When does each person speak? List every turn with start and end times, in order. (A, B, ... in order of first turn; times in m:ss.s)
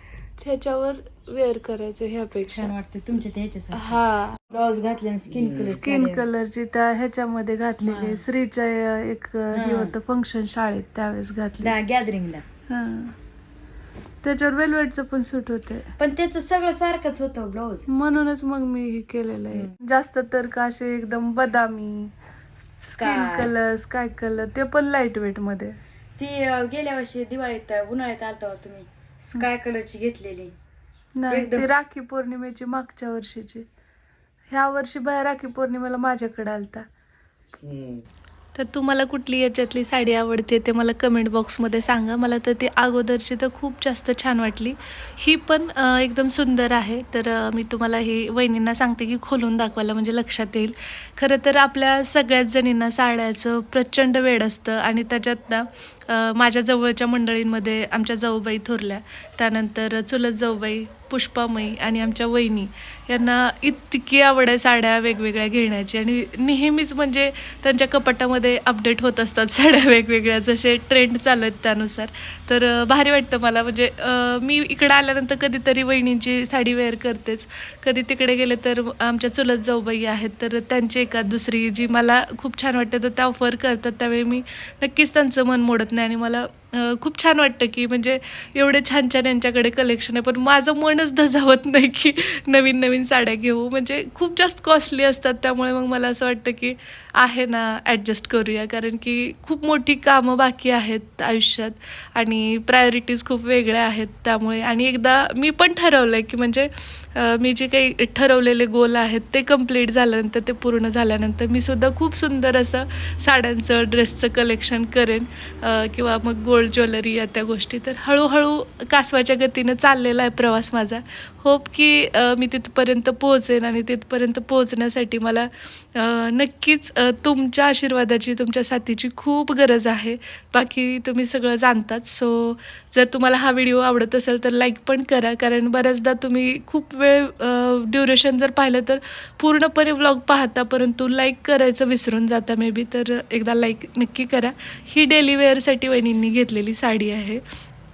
0:00.4-0:02.7 A
0:02.5-0:06.2 B
0:03.7-0:04.4 A
0:05.6-0:11.8 A
0:07.8-0:08.3 B
0:09.5-0:10.0 B
0:11.6-0:12.4 B
0:12.7-0:13.1 A
0:14.2-0:15.9 A
0:16.0-0:17.9 B
0:17.9-0:22.1 A
0:22.8-0:25.8 A
0:23.0-0:23.5 B
0:26.2-0:30.5 B
0:31.2-0:33.6 A
0:31.3-0:31.7 B
0:34.5-0:36.9 A
0:38.6-2:27.4 A